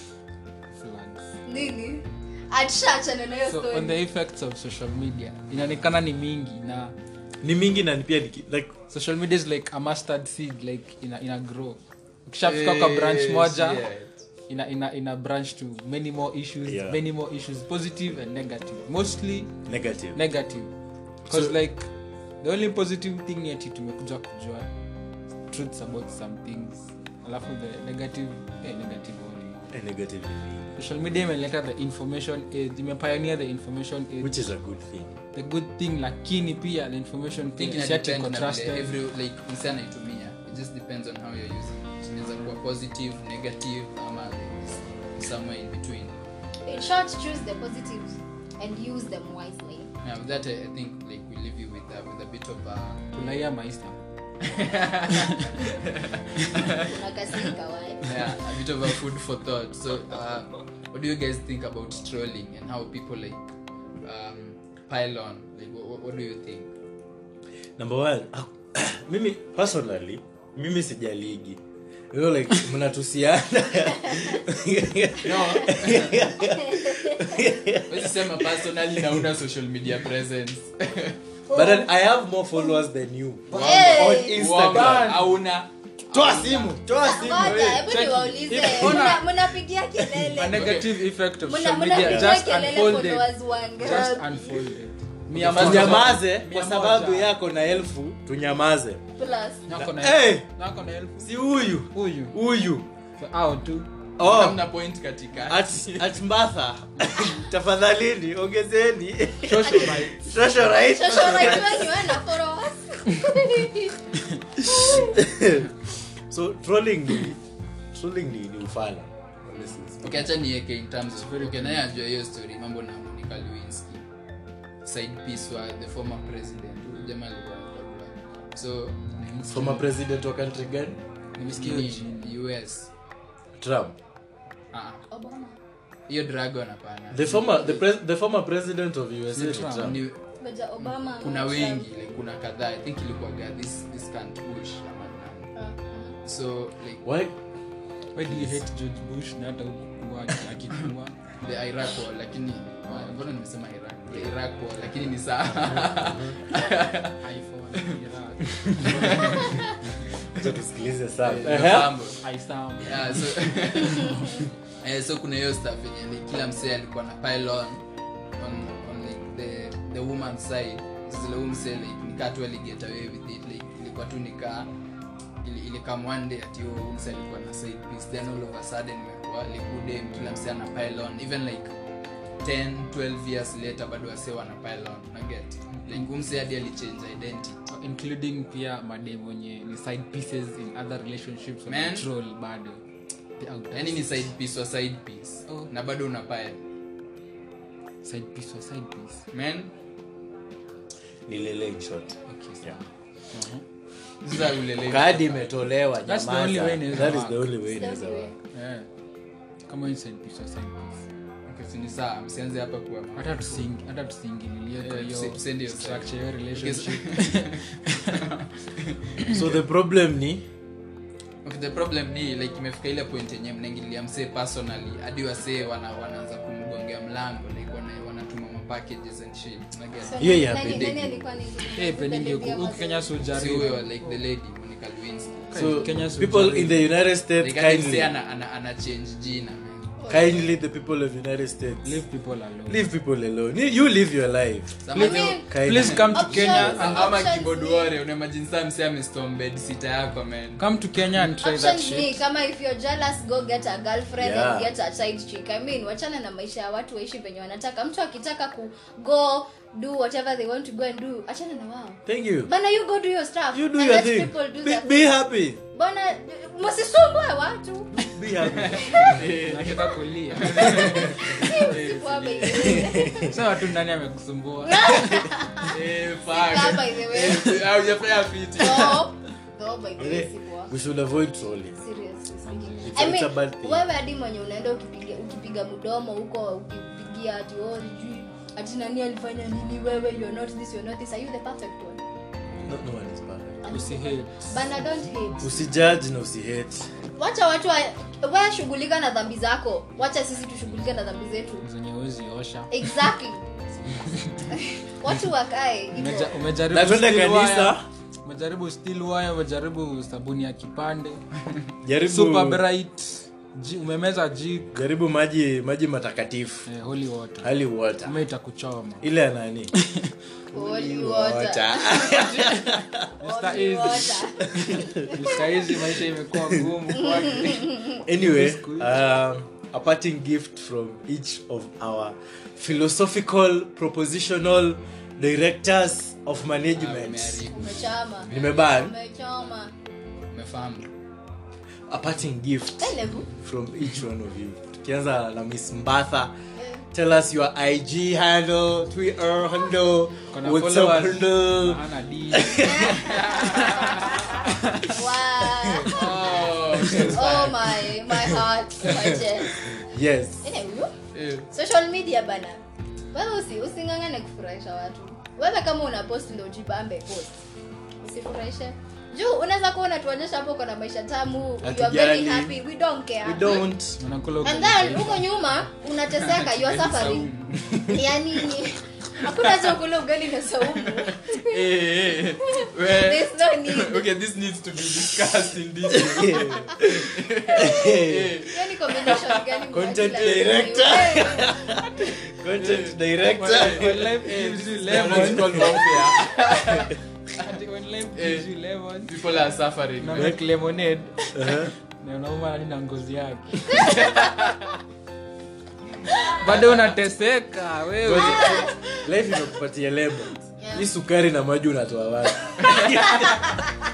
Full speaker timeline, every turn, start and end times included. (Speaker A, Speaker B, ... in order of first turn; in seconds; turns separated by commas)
Speaker A: 0.7-1.3, Speaker B: 1.4-4.0, Speaker A: 3.5-6.9, Speaker C: 7.4-8.7, Speaker A: 8.9-13.8, Speaker D: 12.4-14.1, Speaker A: 14.5-19.6, Speaker C: 16.6-17.0, Speaker C: 19.6-20.2, Speaker A: 20.1-20.7, Speaker C: 21.3-21.6, Speaker A: 21.3-21.9, Speaker A: 22.4-24.7, Speaker A: 25.5-29.7, Speaker C: 29.7-30.8, Speaker A: 30.8-34.5, Speaker C: 34.2-35.1, Speaker A: 35.3-38.9, Speaker D: 37.6-46.2, Speaker B: 46.6-49.9, Speaker D: 50.0-53.0, Speaker A: 53.1-54.0, Speaker D: 54.4-56.9, Speaker B: 56.6-58.1, Speaker D: 58.0-63.4, Speaker D: 64.0-66.7, Speaker C: 67.8-71.6, Speaker C: 72.1-79.3, Speaker D: 75.2-76.3, Speaker B: 76.4-77.4, Speaker D: 77.9-81.2, Speaker B: 81.5-81.9, Speaker C: 81.5-85.2, Speaker D: 83.5-86.8, Speaker A: 83.5-83.9, Speaker B: 83.5-84.4, Speaker A: 84.6-85.2, Speaker C: 86.1-87.9, Speaker B: 86.9-94.6, Speaker D: 87.3-87.8, Speaker A: 87.8-89.3, Speaker A: 90.3-97.3, Speaker D: 90.4-90.9, Speaker C: 92.0-92.4, Speaker D: 95.3-96.2, Speaker C: 95.3-99.0, Speaker B: 99.2-99.6, Speaker A: 99.7-101.3, Speaker C: 99.7-100.5, Speaker C: 101.2-102.9, Speaker A: 101.9-102.4, Speaker A: 103.2-103.9, Speaker C: 104.2-104.7, Speaker D: 104.2-106.1, Speaker C: 105.5-112.0, Speaker A: 109.4-110.3, Speaker B: 109.6-110.0, Speaker B: 110.8-115.2, Speaker C: 114.7-115.7, Speaker C: 116.3-117.4, Speaker C: 117.9-120.3, Speaker D: 120.0-124.0, Speaker A: 121.2-121.8, Speaker D: 124.8-129.0, Speaker A: 129.2-129.8, Speaker C: 129.5-131.0, Speaker A: 131.4-132.3, Speaker D: 131.4-132.9, Speaker C: 133.6-133.9, Speaker D: 134.7-135.0, Speaker B: 135.1-135.5, Speaker D: 136.1-137.6, Speaker C: 137.1-140.0, Speaker A: 139.3-139.9, Speaker D: 139.7-140.2, Speaker B: 140.4-141.8, Speaker D: 140.8-145.5, Speaker B: 145.6-146.2, Speaker D: 146.2-147.0, Speaker C: 147.0-147.3, Speaker A: 148.2-151.2, Speaker C: 148.3-148.6, Speaker D: 151.4-157.2, Speaker A: 152.9-153.2, Speaker C: 155.6-156.4, Speaker A: 157.2-159.6, Speaker D: 158.7-159.8, Speaker C: 160.3-162.0, Speaker D: 161.2-162.2, Speaker A: 162.2-163.2, Speaker D: 162.8-167.8, Speaker D: 168.4-174.7, Speaker D: 175.4-181.7, Speaker D: 182.4-187.6, Speaker A: 187.7-192.8, Speaker D: 191.7-192.1, Speaker A: 193.4-194.2, Speaker D: 193.7-196.6, Speaker A: 198.0-199.2, Speaker D: 199.3-199.7, Speaker C: 201.3-202.8, Speaker A: 202.3-203.6, Speaker D: 204.2-205.5, Speaker C: 204.8-208.3, Speaker A: 206.1-207.5, Speaker B: 207.7-208.3, Speaker A: 208.5-208.9, Speaker A: 209.7-211.0, Speaker D: 211.5-213.6, Speaker A: 213.2-218.2, Speaker D: 214.8-219.4, Speaker C: 219.3-220.4, Speaker D: 221.4-231.1, Speaker B: 230.0-233.1, Speaker C: 230.2-231.2, Speaker A: 231.7-234.1, Speaker D: 233.3-235.7, Speaker A: 235.5-236.9, Speaker C: 235.5-238.1, Speaker D: 237.4-240.0, Speaker B: 240.0-240.4, Speaker C: 240.1-242.0, Speaker A: 241.8-242.8, Speaker C: 242.7-247.0, Speaker D: 244.8-246.1, Speaker B: 244.9-245.5, Speaker A: 244.9-247.1, Speaker B: 246.1-247.9, Speaker D: 246.7-250.6, Speaker A: 250.6-252.2, Speaker B: 251.4-265.0, Speaker C: 254.2-254.7, Speaker C: 262.1-262.5, Speaker C: 263.5-265.6, Speaker B: 265.7-268.0, Speaker C: 267.9-269.3, Speaker D: 268.5-273.0, Speaker B: 268.8-269.1, Speaker A: 269.1-271.0, Speaker C: 270.6-271.3, Speaker B: 271.0-273.4, Speaker C: 272.7-273.3, Speaker A: 273.2-275.2, Speaker B: 274.6-275.8, Speaker D: 275.6-279.1, Speaker B: 276.3-277.6, Speaker B: 278.6-280.7, Speaker C: 280.0-281.8, Speaker B: 281.8-292.0, Speaker C: 282.8-283.8, Speaker C: 292.6-293.8, Speaker B: 293.6-295.6, Speaker A: 293.7-294.5, Speaker C: 295.4-296.9, Speaker B: 297.1-301.6, Speaker A: 301.6-303.0, Speaker B: 302.7-303.4, Speaker A: 303.9-304.5, Speaker B: 304.5-306.4, Speaker A: 305.9-311.2, Speaker C: 306.7-307.9, Speaker C: 311.8-312.6, Speaker A: 312.0-314.8, Speaker C: 314.7-316.7, Speaker A: 316.7-317.5, Speaker C: 317.4-318.1, Speaker A: 318.0-319.0, Speaker C: 319.0-319.7, Speaker A: 319.8-320.1, Speaker C: 320.5-323.1, Speaker B: 320.5-322.3, Speaker A: 322.1-329.0, Speaker B: 323.2-325.4, Speaker C: 324.4-325.1, Speaker C: 326.4-326.9, Speaker B: 326.9-328.0, Speaker C: 328.0-337.5, Speaker D: 336.7-338.7, Speaker B: 337.5-339.7, Speaker C: 338.3-338.9, Speaker D: 340.3-340.9, Speaker C: 341.9-346.3, Speaker B: 342.8-343.3, Speaker B: 346.6-346.8, Speaker C: 346.9-353.1, Speaker A: 350.3-352.9, Speaker B: 352.6-359.8, Speaker D: 352.9-354.3, Speaker A: 354.0-354.9, Speaker C: 355.6-356.1, Speaker D: 355.8-357.9, Speaker C: 356.7-357.3, Speaker C: 358.2-360.5, Speaker B: 360.4-360.9, Speaker D: 361.1-361.5, Speaker B: 361.5-362.6, Speaker B: 363.1-367.4, Speaker B: 368.0-373.7, Speaker C: 371.6-372.6, Speaker C: 373.2-374.0, Speaker A: 374.0-375.3, Speaker B: 374.4-381.7, Speaker D: 376.1-378.0, Speaker D: 379.3-379.8, Speaker D: 380.6-389.6, Speaker B: 382.4-384.1, Speaker C: 385.9-388.4, Speaker B: 388.4-391.8, Speaker C: 389.7-394.2, Speaker D: 390.1-390.4, Speaker D: 392.5-397.5, Speaker A: 393.4-395.9, Speaker C: 394.9-396.1, Speaker A: 397.4-399.1, Speaker D: 398.1-398.5, Speaker D: 399.1-400.3, Speaker A: 400.0-404.5, Speaker C: 401.3-401.7, Speaker A: 406.1-408.7, Speaker D: 406.4-406.9, Speaker C: 408.0-413.5, Speaker B: 408.1-408.7, Speaker B: 410.6-410.9, Speaker D: 412.6-413.4, Speaker B: 413.2-413.7